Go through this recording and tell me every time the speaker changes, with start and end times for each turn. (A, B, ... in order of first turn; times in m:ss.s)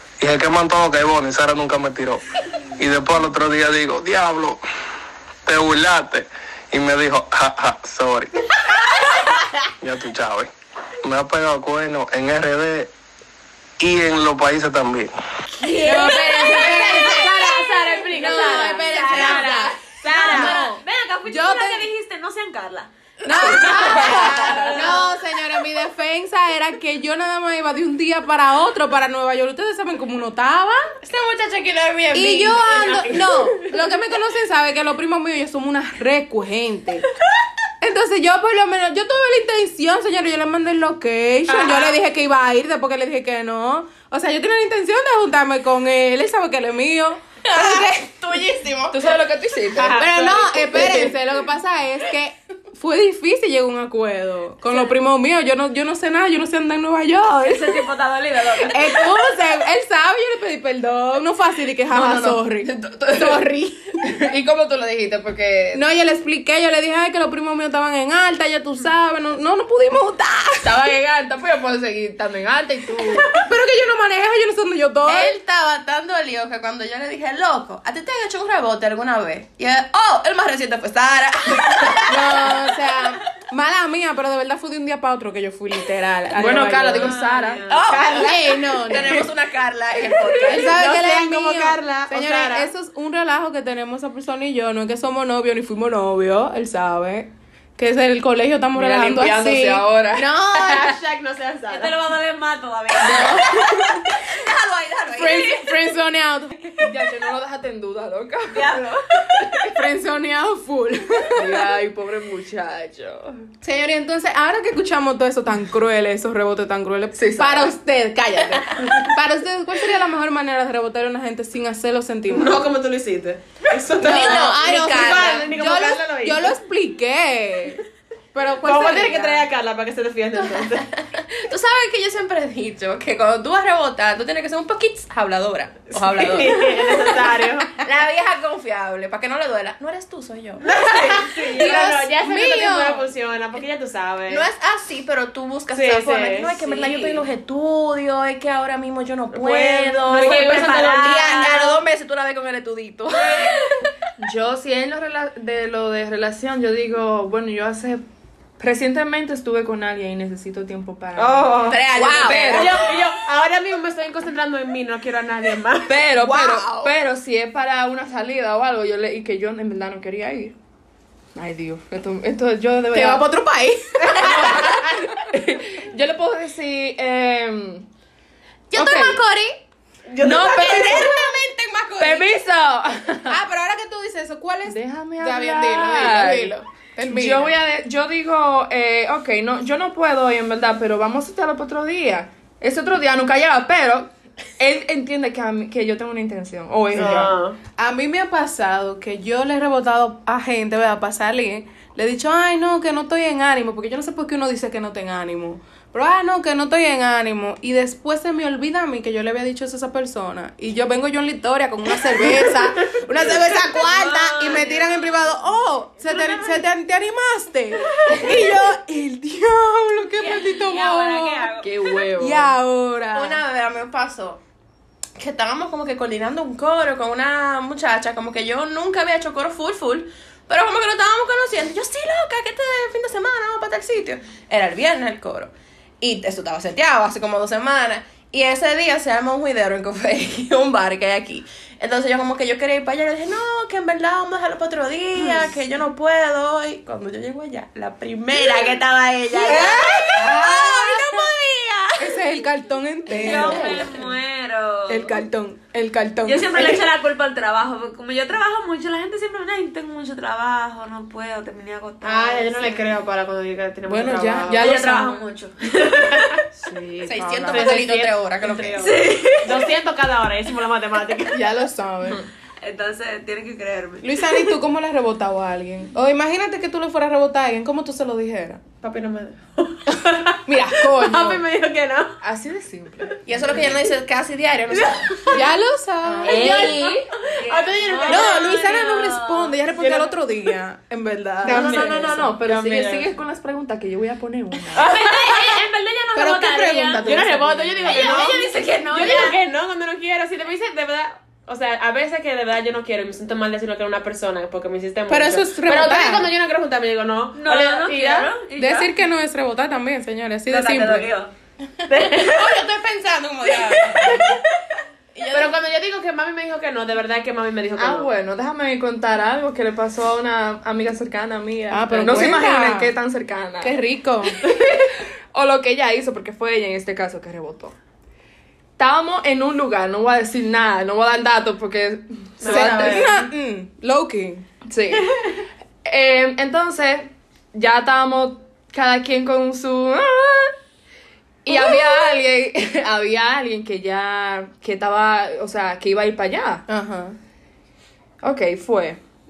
0:00.2-0:02.2 A
0:02.8-0:04.6 A
0:05.4-0:08.3 A
0:09.8-0:10.5 A
0:11.0-0:12.9 A
0:13.8-0:15.1 A
0:15.6-0:22.9 B
0:15.8-0:21.9 C
0:15.8-0:17.4 D
0:18.1-0:20.4 D
0:19.2-0:20.6 E
0:23.2-0:25.0 D
0:23.3-0:30.9 C
0:23.4-0:25.0 B
0:31.0-0:33.0 D
0:32.1-0:37.1 C
0:32.6-0:33.5 E
0:37.8-0:47.8 C
0:41.5-0:42.0 E
0:47.4-0:49.2 D
0:48.9-0:50.2 F
0:49.8-0:51.1 E
0:49.9-0:57.8 C
0:50.8-0:51.1 D
0:57.4-0:59.1 B
0:58.7-1:04.0 C
1:01.9-1:03.4 F
1:04.0-1:05.8 F
1:05.7-1:10.7 C
1:10.6-1:13.3 F
1:13.3-1:15.3 C
1:15.1-1:22.5 D
1:22.1-1:27.1 C
1:26.4-1:27.6 F
1:26.9-1:27.8 B
1:27.7-1:30.9 D
1:27.9-1:28.3 E
1:28.0-1:29.3 C
1:30.3-1:32.7 E
1:30.5-1:40.7 C
1:38.8-1:40.3 F
1:40.6-1:41.9 E
1:41.7-1:43.6 B
1:43.0-1:43.9 C
1:43.0-1:43.5 F
1:44.2-1:45.6 D
1:45.2-1:46.8 C
1:45.2-1:45.5 B
1:46.8-1:48.8 F
1:48.5-1:49.2 B
1:49.7-1:51.5 C
1:51.4-1:53.4 F
1:53.6-2:02.6 C
1:57.2-1:57.7 F
2:02.3-2:06.6 E
2:04.0-2:05.7 D
2:04.0-2:07.8 C
2:08.3-2:09.5 C
2:08.6-2:10.9 E
2:10.6-2:17.1 D
2:15.9-2:17.8 E
2:17.8-2:21.9 D
2:20.6-2:24.5 E
2:21.6-2:23.0 C
2:24.3-2:33.5 D
2:25.7-2:27.2 E
2:29.3-2:31.6 E
2:30.1-2:31.8 B
2:33.1-2:33.6 E
2:34.2-2:38.0 F
2:38.6-2:43.0 F
2:41.2-2:46.0 E
2:41.7-2:42.9 D
2:42.2-2:42.5 C
2:45.9-2:50.6 F
2:46.2-2:46.9 D
2:51.4-2:53.3 F
2:52.9-2:54.5 C
2:54.0-2:54.6 D
2:54.2-2:57.9 F
2:58.7-2:59.5 C
2:58.7-2:59.2 F
3:00.2-3:01.1 F
3:00.2-3:02.3 D
3:00.2-3:01.0 E
3:02.0-3:03.4 F
3:03.3-3:07.6 C
3:04.7-3:17.4 F
3:16.9-3:17.6 E
3:17.8-3:41.5 C
3:33.5-3:35.4 B
3:40.2-3:42.0 B
3:41.6-3:42.5 F
3:42.2-3:43.4 C
3:43.1-3:44.4 D
3:45.2-4:12.0 D
4:08.5-4:08.8 E
4:09.4-4:11.2 B
4:10.2-4:10.5 E
4:12.0-4:13.9 C
4:13.2-4:15.2 B
4:13.4-4:13.8 E
4:14.9-4:16.8 C
4:16.2-4:22.9 B
4:22.0-4:24.7 E
4:23.9-4:25.2 C
4:24.6-4:26.3 B
4:26.0-4:26.4 E
4:26.7-4:27.8 C
4:27.0-4:28.9 D
4:27.5-4:31.4 E
4:28.8-4:29.8 B
4:31.3-4:32.2 C
4:32.6-4:34.3 B
4:34.0-4:38.6 C
4:38.8-4:42.2 E
4:40.5-4:41.4 C
4:42.2-4:43.2 F
4:43.3-4:45.4 D
4:44.7-4:45.4 E
4:45.3-4:46.8 C
4:46.2-4:46.8 D
4:46.2-4:48.9 E
4:46.2-4:49.6 B
4:48.1-4:52.1 C
4:49.8-4:50.2 E
4:51.4-4:53.1 E
4:51.4-4:54.9 F
4:51.8-4:52.1 D
4:54.7-4:55.6 E
4:54.8-4:57.3 B
4:56.2-4:58.3 C
4:57.0-5:08.3 E
4:57.8-4:59.4 B
5:05.1-5:06.3 C
5:07.4-5:08.9 B
5:08.6-5:11.1 C
5:10.5-5:11.3 B
5:11.9-5:12.6 E
5:12.0-5:14.4 D
5:13.9-5:14.4 E
5:15.2-5:15.6 D
5:15.3-5:18.1 E
5:17.8-5:23.8 F
5:21.7-5:22.9 C
5:23.6-5:24.4 C
5:24.5-5:24.8 F
5:25.3-5:27.8 F
5:28.8-5:33.1 F
5:32.4-5:33.3 E
5:32.5-5:34.5 C
5:34.7-5:35.2 F
5:35.8-5:40.5 F
5:41.4-5:46.6 F
5:46.7-5:47.2 C
5:48.2-5:49.0 F